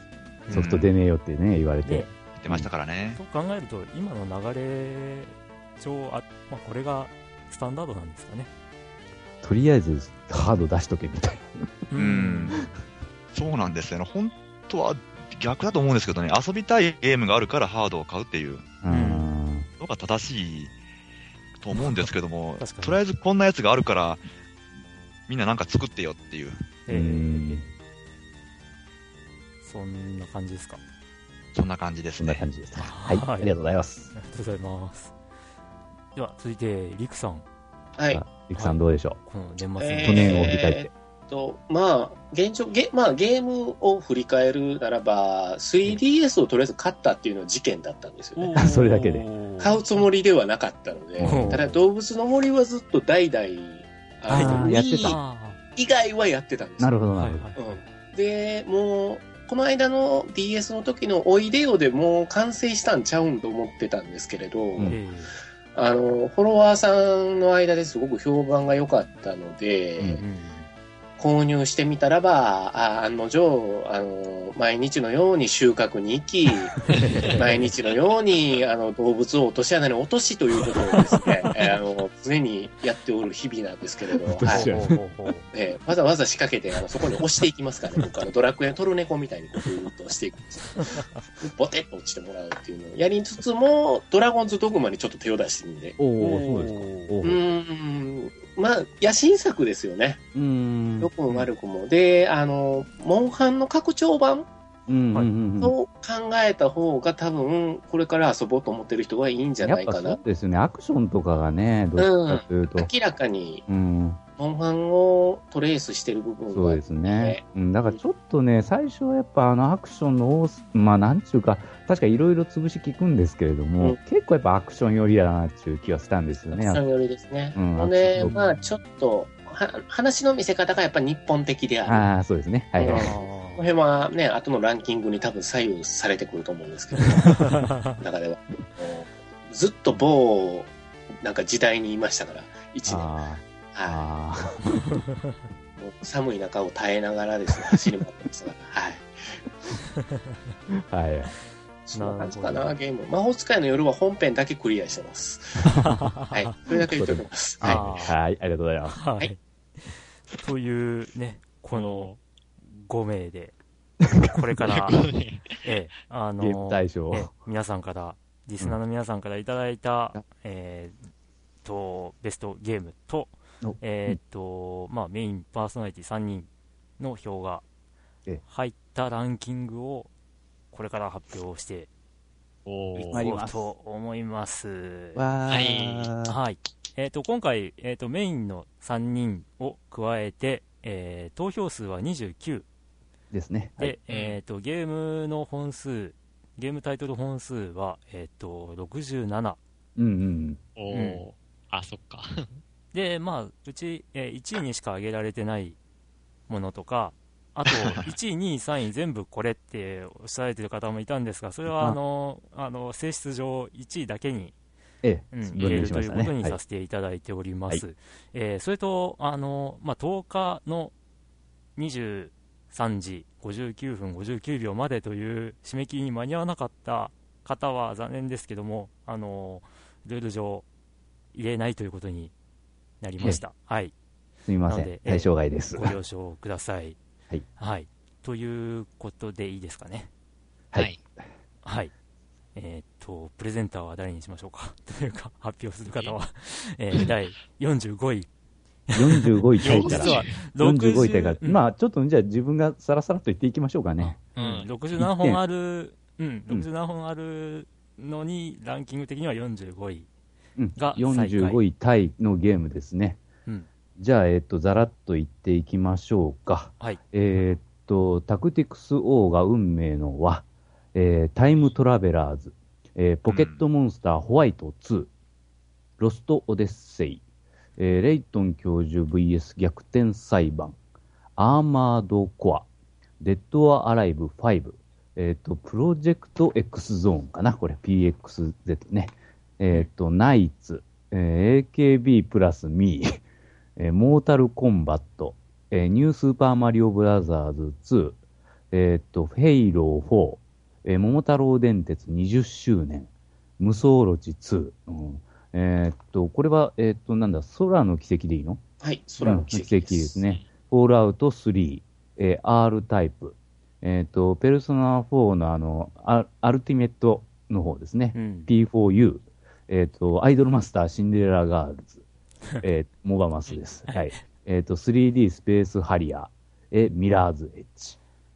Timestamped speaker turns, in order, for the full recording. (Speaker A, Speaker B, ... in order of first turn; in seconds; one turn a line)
Speaker A: 0.5-0.8
Speaker B: 0.5-0.9
Speaker C: 0.5-2.7
Speaker A: 1.8-2.1
Speaker B: 2.4-3.2
Speaker A: 3.2-8.5
Speaker C: 9.4-11.7
Speaker A: 11.9-12.7
Speaker B: 11.9-12.6
Speaker B: 13.3-18.7
Speaker C: 18.8-19.7
Speaker A: 18.9-19.3
Speaker B: 19.8-20.7
Speaker B: 21.6-24.2
Speaker A: 21.8-23.0
Speaker B: 25.3-26.6
Speaker A: 26.9-27.6
Speaker C: 26.9-27.7
Speaker A: 29.6-30.8
Speaker B: 31.5-32.5
Speaker C: 32.2-34.1
Speaker A: 32.8-33.5
Speaker A: 34.1-35.1
Speaker A: 36.1-37.5
Speaker D: 38.0-38.2
Speaker C: 38.1-39.2
Speaker A: 38.5-40.5
Speaker D: 39.8-48.6
Speaker C: 40.0-40.9
Speaker A: 48.4-50.0
Speaker C: 48.6-49.3
Speaker D: 49.6-55.2
Speaker C: 51.2-51.8
Speaker A: 51.2-51.7
Speaker A: 54.3-55.6
Speaker C: 54.3-55.2
Speaker D: 55.8-57.0
Speaker C: 56.8-57.5
Speaker A: 57.1-57.8
Speaker D: 57.6-65.0
Speaker A: 64.9-65.4
Speaker D: 65.8-70.2
Speaker A: 70.2-70.7
Speaker D: 71.2-84.7
Speaker A: 76.9-77.7
Speaker C: 84.2-85.0
Speaker A: 84.5-85.5
Speaker D: 85.5-96.0
Speaker C: 96.0-97.4
Speaker A: 96.2-97.2
Speaker D: 97.2-100.2
Speaker C: 100.3-101.1
Speaker D: 101.0-104.5
Speaker C: 104.9-105.8
Speaker D: 105.6-110.2
Speaker C: 109.6-112.9
Speaker D: 112.0-113.7
Speaker C: 113.7-114.2
Speaker D: 114.4-118.0
Speaker C: 116.5-126.8
Speaker D: 126.5-132.1
Speaker C: 127.5-128.4
Speaker A: 128.2-128.5
Speaker C: 131.9-133.1
Speaker D: 132.8-143.1
Speaker A: 132.8-133.7
Speaker A: 137.3-138.0
Speaker C: 142.9-144.9
Speaker D: 143.7-144.0
Speaker D: 145.8-149.1
Speaker C: 150.8-151.3
Speaker D: 151.9-155.8
Speaker A: 151.9-152.8
Speaker A: 155.7-156.5
Speaker C: 155.7-156.0
Speaker D: 156.3-157.9
Speaker C: 156.8-159.0
Speaker A: 157.6-158.2
Speaker A: 158.9-163.5
Speaker E: 161.7-162.2
Speaker A: 164.2-165.1
Speaker E: 164.7-165.6
Speaker A: 165.6-171.0
Speaker C: 166.4-167.3
Speaker A: 171.6-177.6
Speaker C: 173.6-174.2
Speaker A: 178.4-180.1
Speaker A: 180.7-181.9
Speaker E: 182.7-183.2
Speaker A: 183.0-185.3
Speaker C: 183.0-183.7
Speaker C: 185.2-186.4
Speaker E: 185.5-186.1
Speaker A: 186.2-192.7
Speaker C: 193.3-194.0
Speaker A: 193.8-199.6
Speaker E: 194.1-194.4
Speaker C: 200.0-200.6
Speaker E: 200.8-202.6
Speaker A: 200.9-201.2
Speaker A: 202.9-205.8
Speaker A: 206.5-214.5
Speaker C: 211.7-212.0
Speaker C: 215.0-216.6
Speaker A: 215.3-220.9
Speaker A: 221.8-230.7
Speaker A: 231.3-232.3
Speaker A: 233.0-233.9
Speaker C: 234.4-236.0
Speaker A: 234.7-237.0
Speaker A: 237.6-240.1
Speaker A: 241.6-241.9
Speaker A: 242.6-248.3
Speaker A: 248.9-251.6
Speaker C: 248.9-254.2
Speaker E: 249.6-250.4
Speaker A: 254.0-260.1
Speaker E: 254.3-254.7
Speaker C: 255.0-255.4
Speaker C: 260.6-263.2
Speaker A: 260.8-261.6
Speaker C: 264.0-275.1
Speaker B: 273.3-273.6
Speaker C: 276.0-277.2
Speaker C: 277.8-280.8
Speaker C: 281.4-282.7
Speaker C: 283.2-293.2
Speaker C: 293.8-298.2
Speaker C: 298.7-308.6
Speaker D: 308.8-310.2
Speaker C: 309.2-322.0
Speaker A: 318.1-318.5
Speaker C: 322.6-328.0
Speaker A: 323.9-324.2